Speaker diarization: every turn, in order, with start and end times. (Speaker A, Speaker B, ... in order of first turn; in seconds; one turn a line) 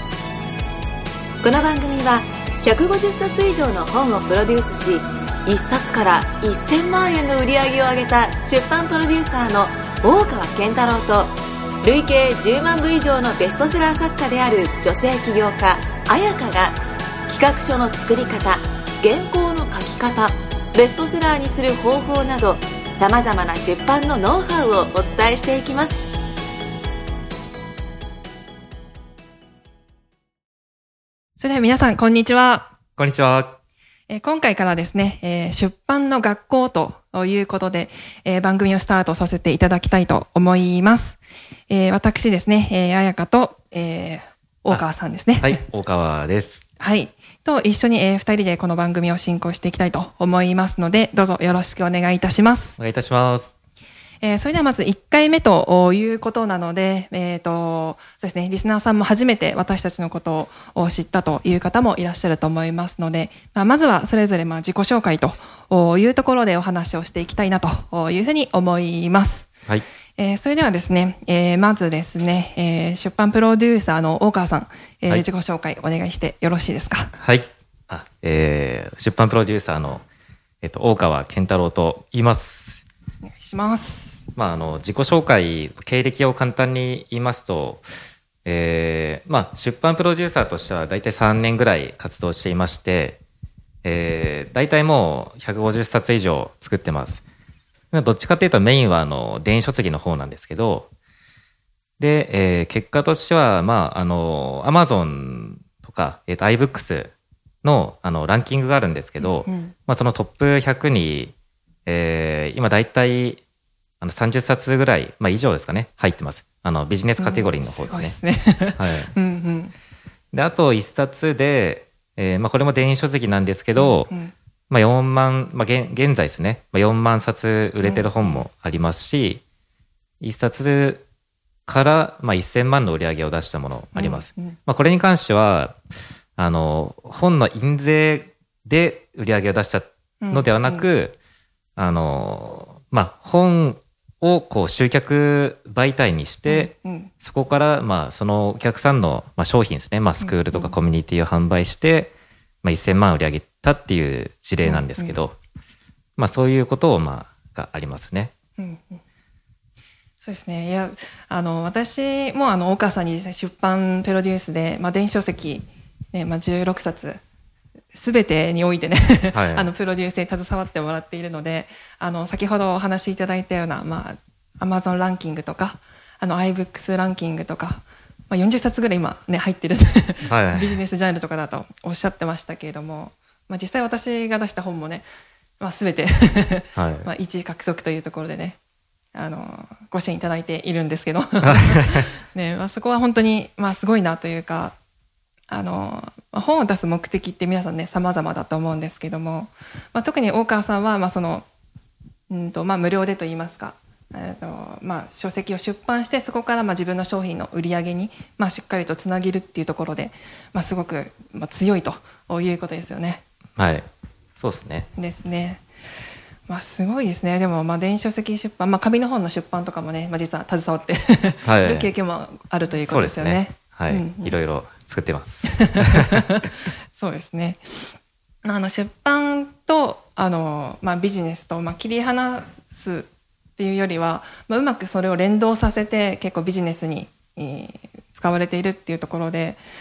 Speaker A: 1.4-26.0
Speaker B: 31.4-32.7
Speaker C: 33.0-33.6
Speaker B: 34.1-45.6
Speaker C: 45.4-46.6
Speaker B: 46.8-52.8
Speaker C: 52.8-53.5
Speaker B: 54.2-69.5
Speaker B: 70.2-77.1
Speaker C: 77.2-80.0
Speaker C: 80.6-82.8
Speaker B: 83.2-84.3
Speaker C: 84.3-87.9
Speaker C: 88.4-93.2
Speaker C: 93.8-97.2
Speaker C: 97.9-100.9
Speaker C: 102.0-111.3
Speaker B: 109.2-109.7
Speaker C: 111.8-113.4
Speaker C: 114.0-118.2
Speaker B: 117.2-119.7
Speaker C: 118.8-119.1
Speaker C: 120.3-124.1
Speaker B: 123.7-124.3
Speaker C: 124.7-129.4
Speaker B: 127.8-128.5
Speaker C: 130.2-131.0
Speaker C: 131.7-135.8
Speaker B: 133.9-134.6
Speaker C: 136.4-141.2
Speaker B: 140.2-140.9
Speaker C: 141.8-152.1
Speaker B: 146.5-147.1
Speaker B: 150.2-150.8
Speaker C: 152.6-155.4
Speaker B: 154.6-155.2
Speaker C: 156.2-158.3
Speaker B: 158.6-159.0
Speaker B: 160.2-167.2
Speaker B: 167.9-185.0
Speaker C: 169.3-169.7
Speaker C: 180.3-180.8
Speaker B: 185.6-188.6
Speaker C: 186.7-187.1
Speaker B: 189.1-194.8
Speaker B: 195.5-201.4
Speaker B: 202.3-213.2
Speaker C: 213.6-213.9
Speaker C: 214.4-214.9
Speaker B: 214.9-215.6
Speaker B: 216.5-224.4
Speaker C: 221.4-221.9
Speaker C: 222.8-226.2
Speaker B: 225.5-227.9
Speaker B: 228.4-239.6